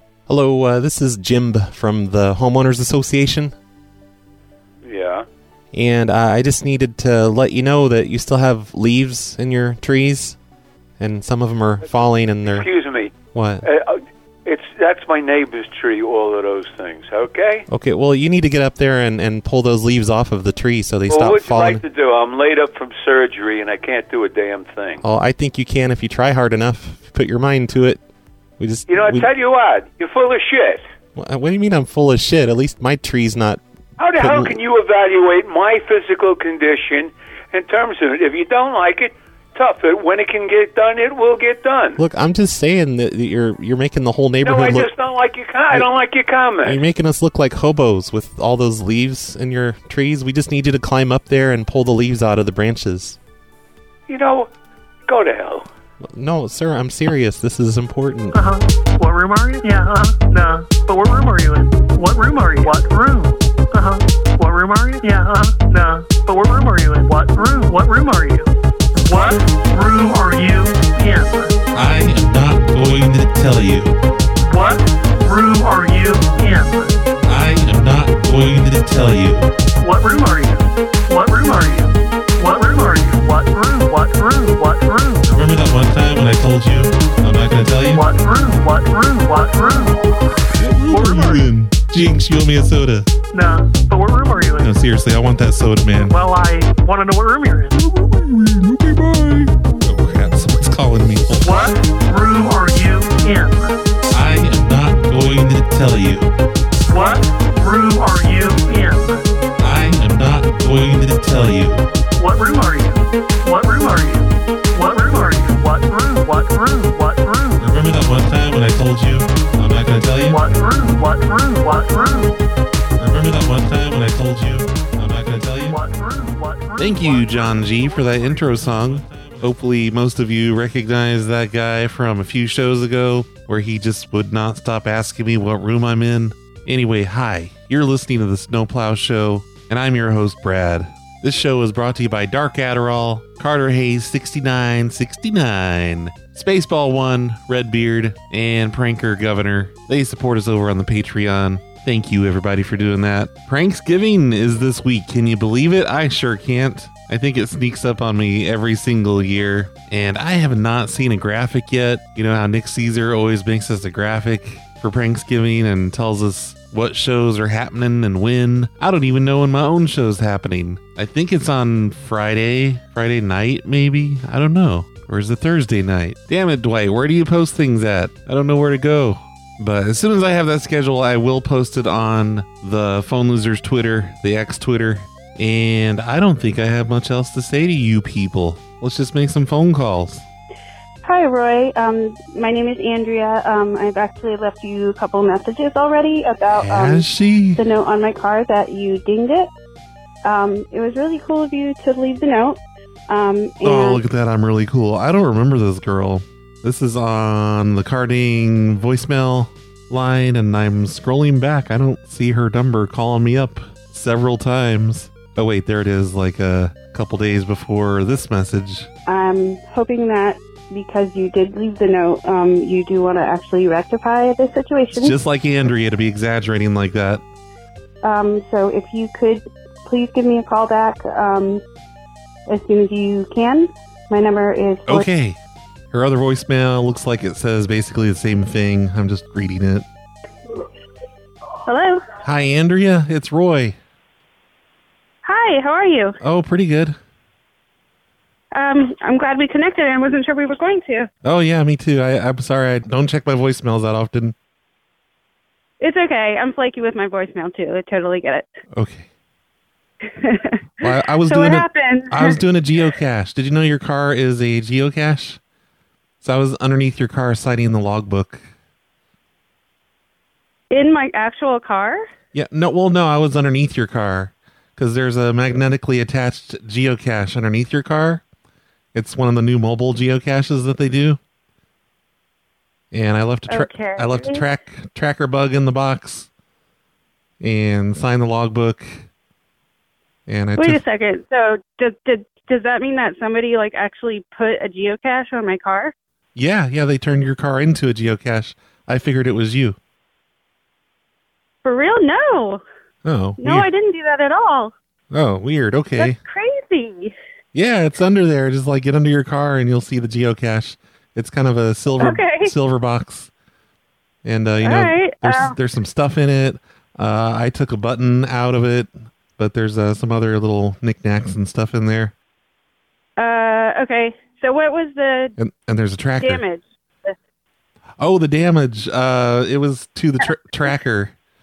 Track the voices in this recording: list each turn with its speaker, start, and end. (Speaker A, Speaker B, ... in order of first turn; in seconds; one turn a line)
Speaker A: 0.3-3.5
Speaker B: 0.3-3.3
Speaker C: 4.8-5.2
Speaker A: 5.8-10.3
Speaker B: 5.8-10.3
Speaker A: 11.0-12.7
Speaker B: 11.0-12.4
Speaker C: 12.5-13.1
Speaker A: 13.3-13.6
Speaker C: 13.6-17.6
Speaker A: 17.7-21.8
Speaker B: 17.7-21.8
Speaker C: 21.1-25.0
Speaker A: 25.0-28.0
Speaker B: 26.5-28.0
Speaker A: 28.6-29.3
Speaker C: 28.9-30.8
Speaker B: 31.2-32.3
Speaker A: 31.2-33.6
Speaker C: 34.0-42.0
Speaker A: 34.2-34.5
Speaker B: 42.0-44.9
Speaker A: 42.9-43.2
Speaker C: 44.4-46.8
Speaker A: 44.5-44.8
Speaker B: 46.6-53.1
Speaker A: 48.8-52.7
Speaker C: 54.1-54.5
Speaker C: 55.1-55.7
Speaker A: 56.2-58.3
Speaker D: 58.3-68.5
Speaker D: 69.0-71.5
Speaker B: 71.7-74.0
Speaker D: 74.5-77.0
Speaker B: 77.3-79.5
Speaker D: 79.8-85.3
Speaker B: 85.2-88.0
Speaker D: 87.9-90.0
Speaker B: 90.6-93.1
Speaker D: 90.9-91.5
Speaker D: 93.3-94.7
Speaker B: 94.6-96.2
Speaker D: 96.1-97.7
Speaker B: 97.7-101.7
Speaker D: 101.4-103.8
Speaker B: 104.1-106.3
Speaker D: 106.9-109.2
Speaker B: 109.6-111.9
Speaker D: 112.2-117.7
Speaker B: 117.6-120.4
Speaker D: 120.3-122.4
Speaker B: 123.0-125.8
Speaker D: 125.7-128.4
Speaker B: 126.8-190.3
Speaker E: 191.0-197.0
Speaker B: 196.6-197.6
Speaker E: 197.6-199.5
Speaker E: 200.2-204.0
Speaker B: 203.6-218.9
Speaker E: 219.1-225.2
Speaker B: 224.9-227.2
Speaker E: 228.0-231.6
Speaker E: 232.5-235.1
Speaker B: 234.9-235.4
Speaker B: 235.9-239.9
Speaker E: 241.7-242.1
Speaker B: 242.2-243.8
Speaker E: 245.2-246.2
Speaker B: 246.2-247.0
Speaker E: 248.5-251.1
Speaker B: 251.2-254.3
Speaker E: 255.8-258.5
Speaker B: 258.8-259.1
Speaker E: 260.1-260.6
Speaker B: 260.8-265.4
Speaker E: 261.2-262.4
Speaker B: 266.2-268.4
Speaker E: 270.7-272.1
Speaker B: 272.3-278.2
Speaker B: 278.9-281.2
Speaker B: 282.9-286.3
Speaker E: 283.5-284.4
Speaker B: 287.4-289.1
Speaker B: 290.3-290.8
Speaker E: 290.6-295.9
Speaker B: 296.4-299.8
Speaker E: 301.6-302.6
Speaker B: 303.0-303.7
Speaker E: 303.4-304.7
Speaker B: 305.1-306.2
Speaker E: 306.0-307.1
Speaker B: 307.5-313.3
Speaker E: 312.0-312.5
Speaker B: 314.2-322.1
Speaker E: 314.6-315.5
Speaker E: 323.2-325.4
Speaker B: 325.4-326.4
Speaker E: 326.2-327.1
Speaker B: 328.0-331.1